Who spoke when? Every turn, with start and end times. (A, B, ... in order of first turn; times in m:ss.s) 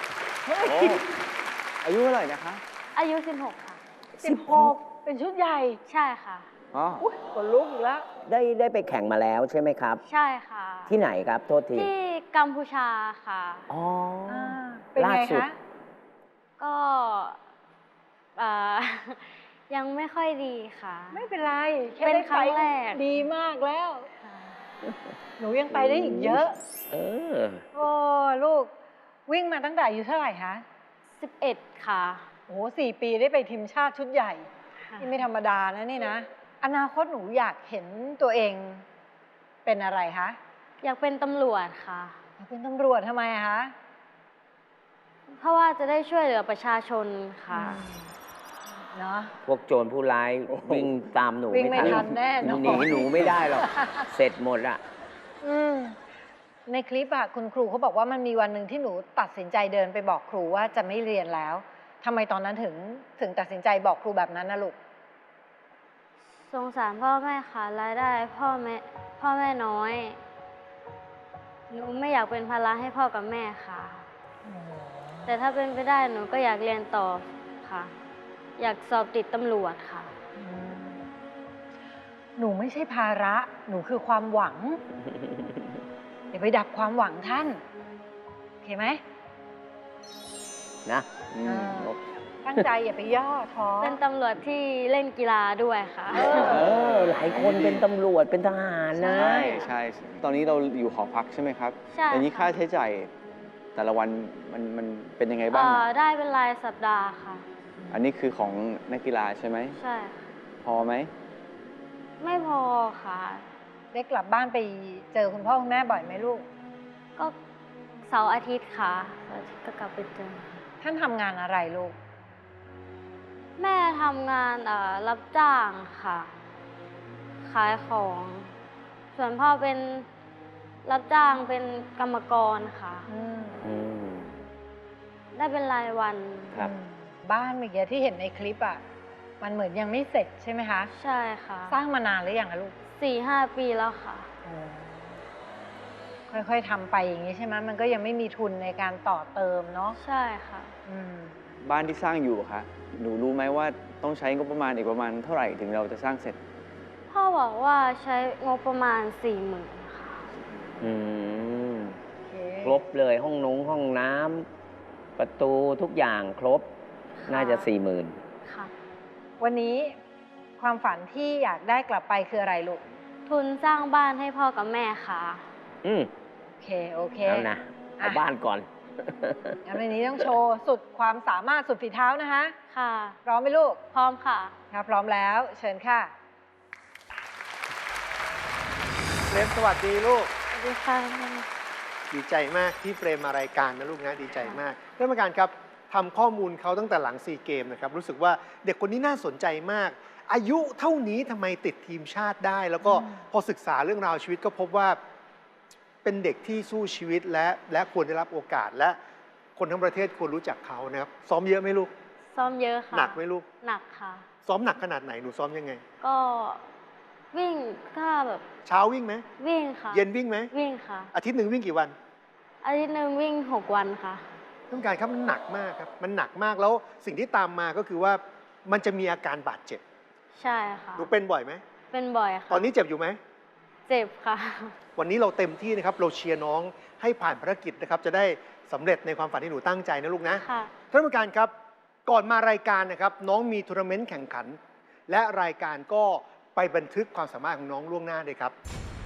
0:00.5-0:00.9 A
0:00.6-0:01.0 B
0:00.6-0:01.0 C
0:01.8-0:02.6 C
0:02.9-0:03.8 D
0:04.2-0:05.8 A
0:04.3-0:04.7 B
0:05.9-0:06.5 D
0:06.7-0:07.0 C
0:07.0-0:08.0 A
0:08.2-0:10.0 B
0:10.0-0:10.9 D
0:10.9-0:11.9 B
0:11.7-0:13.7 D
0:13.7-0:15.5 B
0:14.3-0:15.6 A
0:16.6-0:17.4 D
0:18.4-0:21.2 D
0:21.1-0:24.1 A
0:22.0-0:23.0 D
0:24.2-0:24.5 D
0:25.4-0:26.5 A
0:25.7-0:27.6 B
0:27.7-0:28.7 A
0:29.3-0:30.6 A
0:31.2-0:32.2 D
0:32.5-0:34.5 A
0:34.8-0:35.2 D
0:35.0-0:38.8 A
0:39.6-0:40.4 A
0:40.8-0:42.2 D
0:42.4-0:43.7 A
0:45.4-0:47.8 D
0:47.5-0:48.1 A
0:48.9-0:49.3 A
0:49.4-0:54.8 B
0:50.5-0:50.9 C
0:51.5-0:54.0 A
0:51.8-0:52.1 C
0:55.4-0:56.0 A
0:56.7-1:04.8 A
1:06.5-1:10.2 D
1:11.7-1:14.0 D
1:14.4-1:15.3 A
1:15.2-1:17.9 D
1:18.6-1:20.1 D
1:20.4-1:21.0 A
1:22.4-1:24.8 A
1:26.3-1:27.6 A
1:28.6-1:29.0 A
1:30.8-1:31.3 B
1:31.3-1:31.9 C
1:31.4-1:31.9 A
1:32.4-1:34.0 A
1:33.8-1:36.6 D
1:36.1-1:36.8 A
1:36.2-1:39.7 B
1:36.4-1:37.9 C
1:39.1-1:39.6 A
1:39.1-1:43.1 C
1:39.2-1:39.5 D
1:41.9-1:42.5 D
1:43.8-1:45.8 C
1:45.5-1:47.4 D
1:47.9-1:49.8 C
1:49.8-1:50.3 D
1:50.6-1:51.1 C
1:52.2-1:53.4 D
1:53.9-1:56.4 A
1:58.0-2:00.6 D
2:00.8-2:02.0 A
2:03.6-2:06.3 D
2:07.4-2:08.5 D
2:09.1-2:10.0 D
2:10.8-2:13.1 D
2:13.1-2:13.6 A
2:13.6-2:14.3 B
2:15.3-2:16.5 D
2:16.6-2:18.8 A
2:19.4-2:20.9 A
2:20.9-2:21.8 D
2:21.7-2:22.7 A
2:23.0-2:24.3 D
2:24.4-2:25.2 A
2:26.3-2:30.0 A
2:30.0-2:30.7 D
2:30.8-2:31.4 A
2:31.6-2:36.4 C
2:37.1-2:40.2 D
2:40.8-2:42.0 B
2:42.2-2:42.8 A
2:42.6-2:44.5 B
2:45.2-2:46.7 B
2:47.2-2:47.6 D
2:47.3-2:48.2 B
2:48.4-2:48.7 D
2:49.4-2:50.0 A
2:50.6-2:52.8 A
2:53.3-2:55.4 D
2:55.8-2:56.1 B
2:56.6-2:57.5 A
2:57.2-2:58.7 B
2:59.2-2:59.5 B
2:59.6-3:02.6 A
3:02.7-3:03.2 D
3:03.2-3:03.8 A
3:03.9-3:04.5 D
3:04.7-3:06.1 A
3:09.3-3:10.3 E
3:10.5-3:11.4 D
3:12.1-3:25.0 E
3:26.0-3:29.0 E
3:29.6-3:31.9 E
3:32.3-3:34.2 D
3:32.9-3:33.4 E
3:34.4-3:35.8 E
3:36.0-3:36.6 D
3:37.3-3:38.4 D
3:38.6-3:39.2 E
3:39.4-3:41.1 D
3:39.9-3:40.5 E
3:41.1-3:41.9 E
3:42.6-3:44.2 D
3:44.7-3:49.8 E
3:50.4-3:51.1 D
3:51.0-3:51.6 E
3:51.9-3:52.7 D
3:52.5-3:53.2 E
3:53.9-3:54.7 D
3:55.0-4:01.5 E
4:00.3-4:00.7 D
4:02.0-4:08.5 E